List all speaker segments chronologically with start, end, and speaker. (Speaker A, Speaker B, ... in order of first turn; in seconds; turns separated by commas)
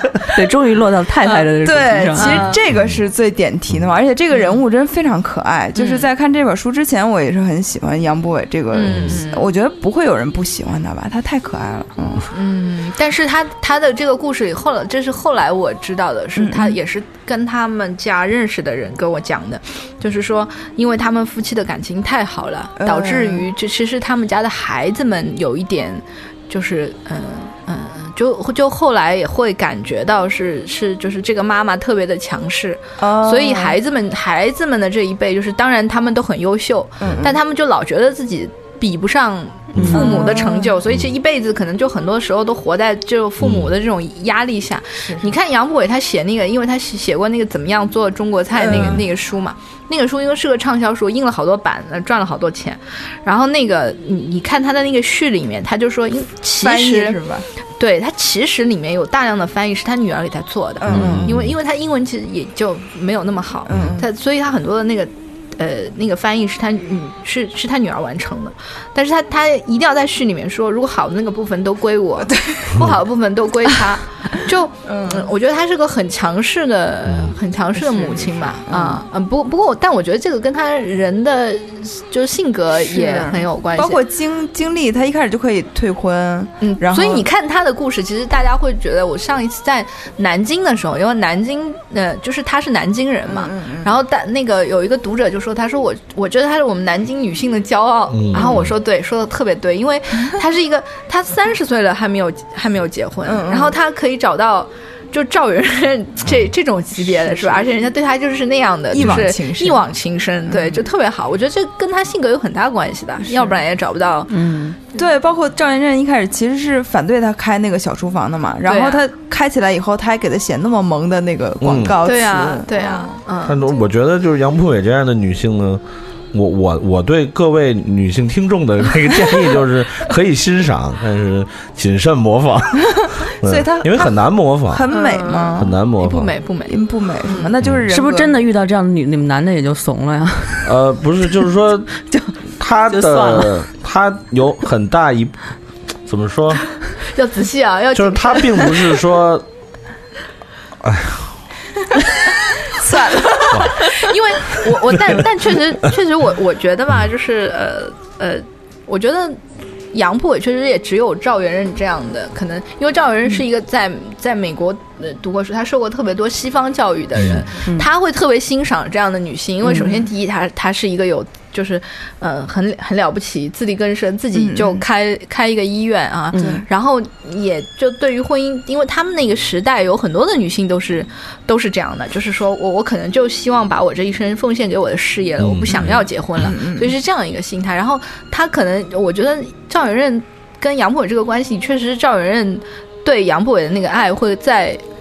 Speaker A: 0.3-2.5, Speaker B: 1.6-12.3, Speaker C: 2.1-2.6, Speaker D: 2.7-3.0, Speaker C: 4.3-4.6, Speaker C: 5.8-6.1, Speaker C: 8.7-9.5, Speaker D: 8.9-9.2, Speaker C: 12.3-57.2, Speaker B: 16.4-16.8, Speaker B: 22.8-23.5, Speaker B: 33.0-33.8, Speaker B: 37.0-37.4, Speaker D: 39.7-40.0, Speaker A: 39.8-40.2, Speaker B: 39.8-40.8, Speaker D: 43.4-43.7, Speaker B: 45.0-45.3, Speaker B: 48.6-49.1, Speaker D: 48.7-49.0, Speaker B: 56.6-57.5, Speaker C: 57.8-84.0, Speaker B: 60.8-61.4, Speaker D: 60.9-61.5, Speaker B: 63.7-64.1, Speaker D: 63.7-64.0, Speaker B: 72.2-72.8, Speaker B: 74.9-75.3, Speaker D: 77.1-77.4, Speaker B: 77.8-79.0, Speaker B: 82.8-87.3, Speaker C: 86.6-114.4, Speaker B: 93.3-94.0, Speaker D: 98.1-98.7, Speaker B: 98.3-98.7, Speaker B: 103.3-103.8, Speaker B: 107.0-107.7, Speaker B: 108.9-109.9, Speaker B: 110.5-110.9, Speaker B: 113.2-113.6, Speaker A: 114.3-114.8, Speaker B: 115.0-123.2, Speaker C: 118.7-119.0, Speaker D: 121.6-122.0, Speaker C: 122.0-123.6, Speaker D: 123.4-134.9, Speaker B: 133.4-134.1, Speaker B: 134.7-135.8, Speaker C: 134.9-137.5, Speaker D: 135.6-136.3, Speaker B: 136.7-138.4, Speaker A: 137.9-140.7, Speaker D: 140.6-141.9, Speaker D: 142.4-145.4, Speaker A: 142.9-143.5, Speaker D: 146.1-146.7, Speaker C: 147.1-148.7, Speaker D: 147.9-149.5, Speaker D: 150.8-151.4, Speaker B: 152.7-153.7, Speaker D: 153.5-153.8, Speaker C: 153.8-159.4, Speaker C: 159.9-194.8, Speaker D: 167.2-167.4, Speaker A: 167.6-167.9, Speaker A: 169.7-169.9, Speaker B: 174.3-174.8, Speaker A: 176.3-176.6, Speaker B: 176.4-176.7, Speaker D: 185.4-186.1, Speaker B: 186.4-186.9